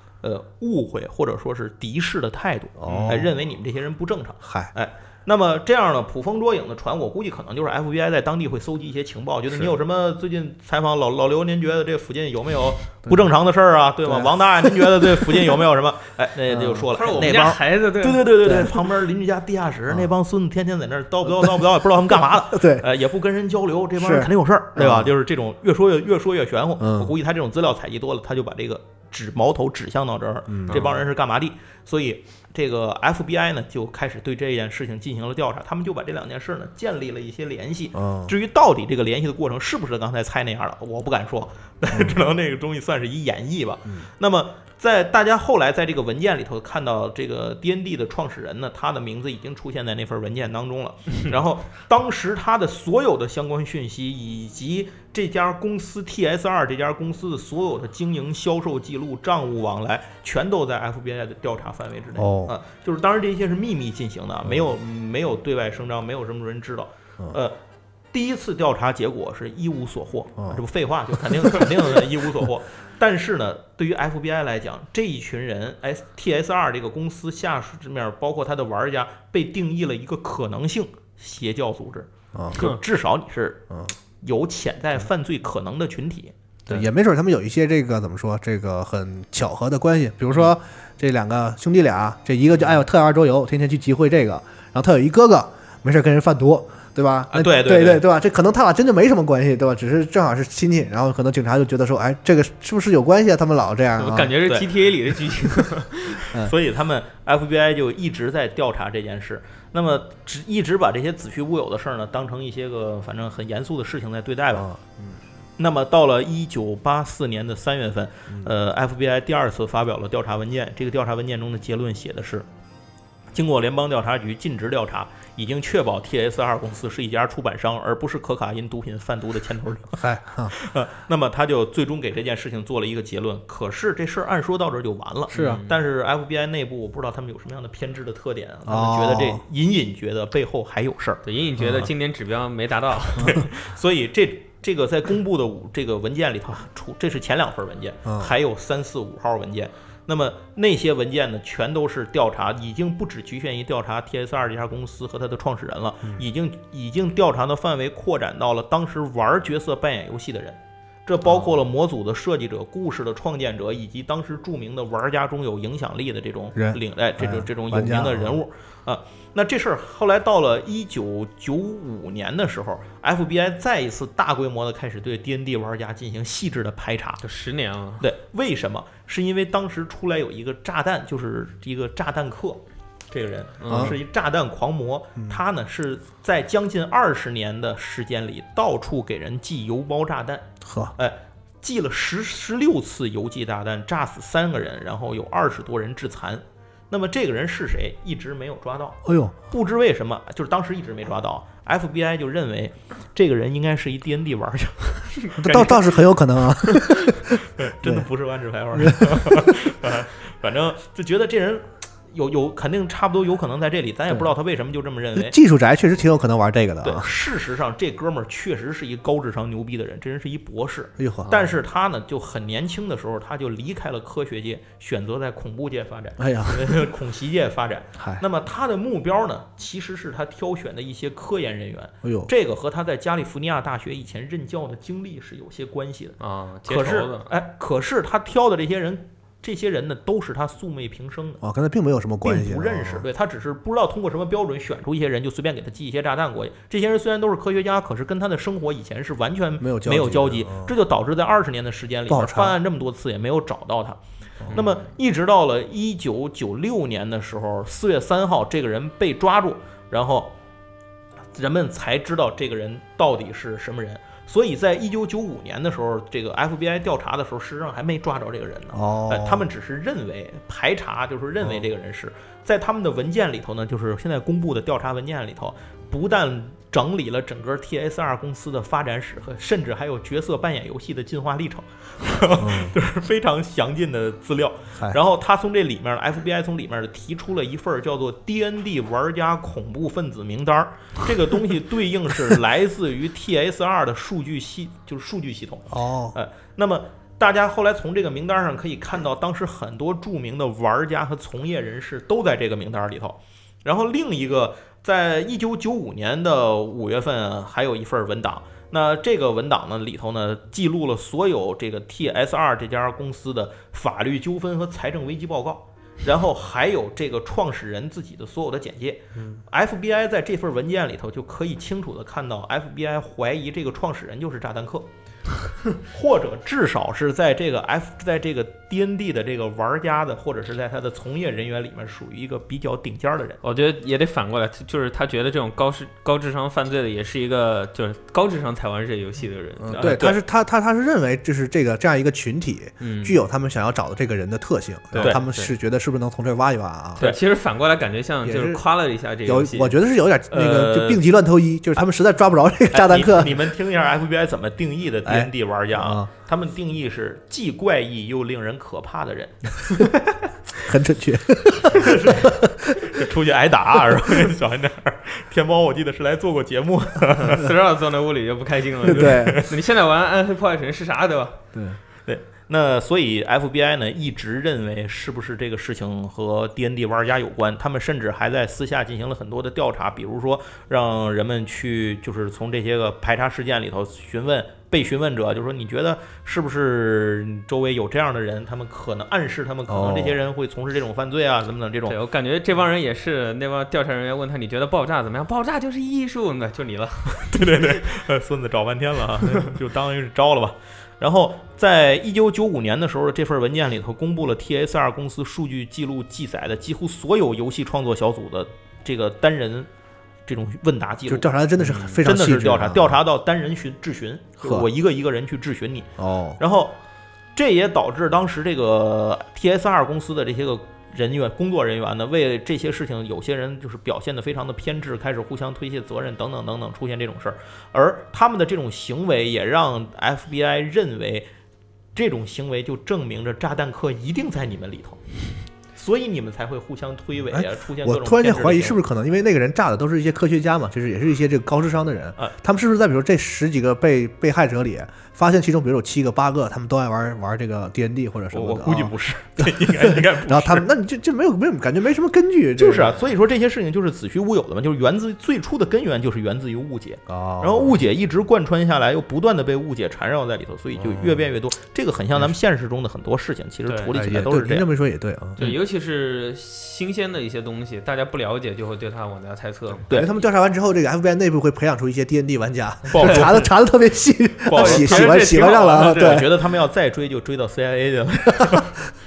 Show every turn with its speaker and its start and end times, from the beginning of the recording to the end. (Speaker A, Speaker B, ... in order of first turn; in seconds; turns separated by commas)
Speaker A: 0.2-67.6, Speaker B: 2.8-3.3, Speaker C: 2.9-3.2, Speaker B: 4.4-4.7, Speaker B: 14.1-15.5, Speaker B: 16.5-16.9, Speaker C: 16.9-18.6, Speaker B: 18.4-18.7, Speaker B: 22.4-22.9, Speaker B: 24.0-25.1, Speaker B: 26.8-27.1, Speaker B: 30.5-30.9, Speaker B: 38.0-38.3, Speaker B: 62.2-62.5, Speaker A: 68.1-83.7, Speaker B: 82.3-82.7, Speaker A: 84.2-86.3, Speaker B: 86.7-104.4, Speaker A: 97.3-98.1, Speaker C: 104.0-106.3, Speaker A: 106.5-114.7, Speaker B: 114.5-114.8, Speaker A: 115.6-122.5, Speaker A: 123.3-141.2, Speaker B: 130.0-130.6, Speaker C: 135.3-135.8, Speaker B: 135.3-135.6, Speaker B: 138.7-139.4, Speaker C: 141.2-143.4, Speaker B: 141.6-141.9, Speaker A: 143.2-177.2, Speaker B: 148.1-148.3, Speaker B: 166.6-168.4, Speaker C: 177.2-178.1, Speaker A: 178.0-205.9, Speaker C: 183.6-183.9, Speaker B: 183.7-183.9, Speaker B: 190.6-190.9, Speaker B: 199.1-199.4, Speaker B: 205.4-208.1, Speaker A: 207.6-215.3, Speaker B: 208.7-209.6, Speaker B: 215.2-217.1, Speaker A: 216.8-241.4, Speaker B: 221.0-221.6, Speaker B: 226.2-226.9, Speaker B: 228.0-228.2, Speaker B: 232.0-232.3, Speaker C: 236.2-237.3, Speaker B: 241.4-243.1, Speaker A: 242.2-254.0, Speaker B: 249.6-250.7, Speaker B: 252.1-252.6, Speaker C: 254.5-254.8, Speaker A: 254.5-260.3, Speaker A: 261.3-324.9, Speaker B: 268.7-269.5, Speaker B: 282.4-282.8, Speaker B: 295.7-296.2, Speaker A: 325.9-333.4, Speaker C: 333.4-340.0, Speaker B: 339.6-347.0, Speaker A: 339.7-340.2, Speaker C: 342.8-343.2, Speaker C: 344.9-345.5, Speaker C: 347.0-349.8, Speaker B: 348.2-348.6, Speaker B: 349.2-353.5, Speaker A: 350.3-351.0, Speaker A: 352.7-359.8, Speaker B: 355.1-356.1, Speaker B: 360.6-362.7, Speaker A: 361.7-367.4, Speaker C: 367.2-371.4, Speaker B: 368.8-369.4, Speaker B: 371.5-371.8, Speaker A: 372.1-391.9, Speaker B: 389.7-390.2, Speaker C: 391.9-397.8, Speaker A: 397.3-409.7, Speaker A: 410.3-411.3, Speaker B: 411.1-413.0, Speaker C: 411.6-412.0, Speaker A: 412.0-416.8, Speaker B: 414.4-414.7, Speaker B: 416.0-416.4, Speaker A: 417.4-431.3, Speaker A: 431.9-435.0, Speaker A: 435.7-438.8, Speaker B: 437.3-453.1, Speaker A: 448.3-450.7, Speaker A: 452.6-464.7, Speaker B: 457.1-457.8, Speaker B: 460.8-461.3, Speaker C: 463.7-463.9, Speaker B: 463.9-465.4, Speaker C: 465.4-469.9, Speaker B: 469.9-476.3, Speaker A: 472.9-473.4, Speaker C: 473.0-473.5, Speaker A: 474.5-478.8, Speaker C: 474.5-476.2